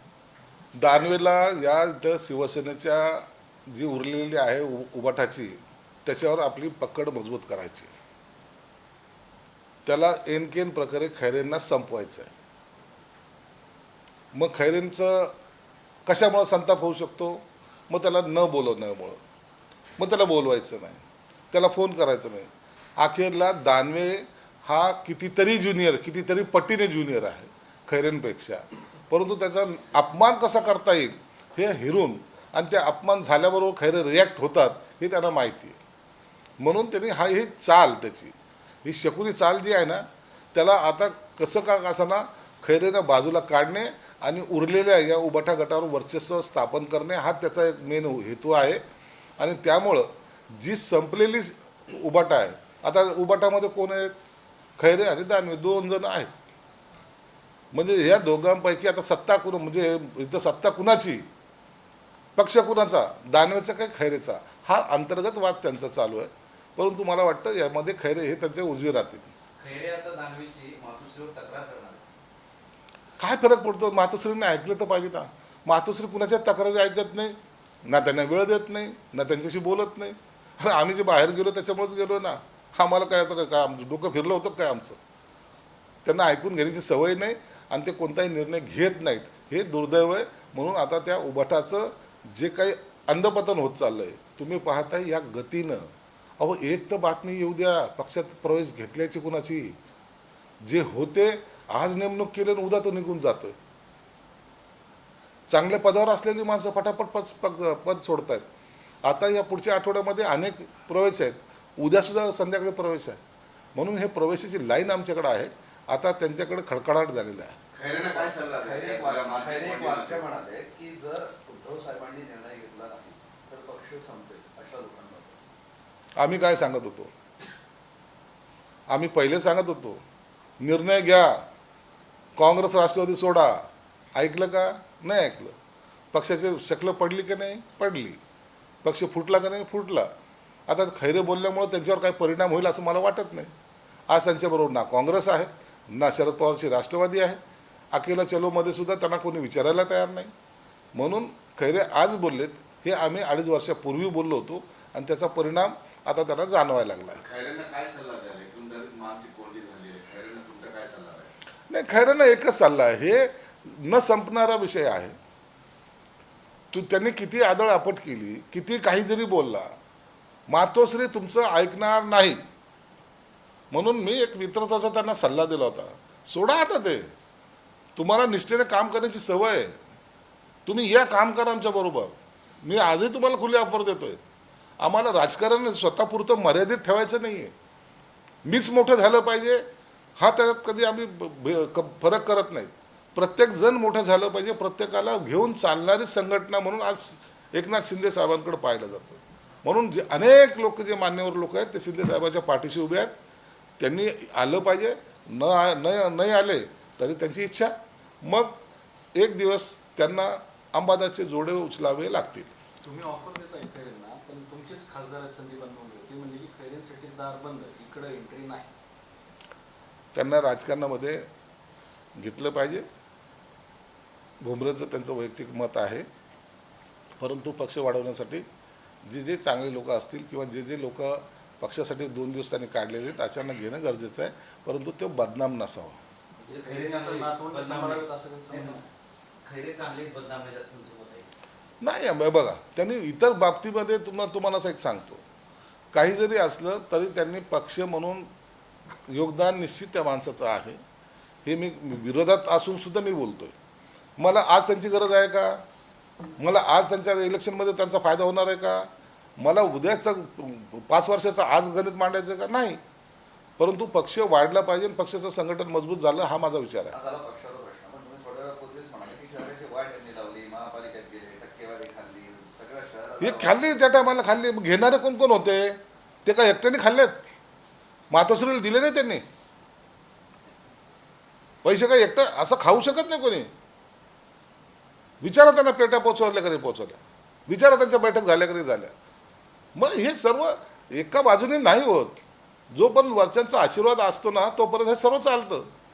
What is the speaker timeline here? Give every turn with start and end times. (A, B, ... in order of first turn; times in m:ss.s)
0:00.8-0:07.9 A
0:09.8-0:12.3 A
0:14.3-0:15.3 A
0:16.1-0:19.2 A
0:20.0-0:35.8 A
0:36.6-0:48.8 A
0:49.4-0:54.1 A
0:54.8-0:56.3 A
0:57.7-1:01.2 A
1:02.4-1:09.3 A
1:09.6-1:12.0 B
1:13.2-1:25.0 A
1:26.0-1:35.9 A
1:36.4-1:39.8 A
1:40.6-1:43.6 A
1:45.5-1:48.5 A
1:49.0-1:53.2 A
1:53.8-1:57.6 A
1:57.7-2:05.3 C
1:57.8-2:00.4 D
2:06.2-2:07.1 A
2:08.9-2:10.0 A
2:10.6-2:11.4 A
2:12.4-2:13.6 A
2:14.2-2:15.5 A
2:16.1-2:18.2 A
2:18.8-2:20.1 A
2:20.7-2:23.5 A
2:24.1-2:27.4 A
2:27.9-2:30.3 A
2:31.0-2:37.2 A
2:37.2-2:41.3 C
2:41.7-2:45.2 A
2:46.7-2:49.7 A
2:50.5-2:52.4 A
2:53.7-2:57.1 A
2:58.0-2:59.8 A
3:00.7-3:04.2 A
3:04.8-3:07.5 A
3:08.4-3:09.6 A
3:10.2-3:23.1 A
3:23.8-3:28.6 A
3:29.2-3:32.5 A
3:32.8-3:38.7 D
3:40.1-3:41.3 A
3:42.2-3:42.8 A
3:44.4-3:46.1 A
3:47.2-3:48.4 A
3:49.0-3:56.0 A
3:56.4-3:58.9 D
3:56.5-3:58.8 B
3:59.4-4:01.3 B
4:01.8-4:05.2 A
4:05.9-4:08.3 A
4:09.1-4:10.8 A
4:11.4-4:13.5 A
4:14.2-4:15.6 A
4:16.4-4:18.9 A
4:19.4-4:22.8 A
4:23.6-4:27.0 A
4:26.9-4:33.8 C
4:33.2-4:37.2 A
4:38.1-4:39.2 A
4:41.6-4:43.5 A
4:45.2-4:48.9 A
4:49.8-4:55.7 A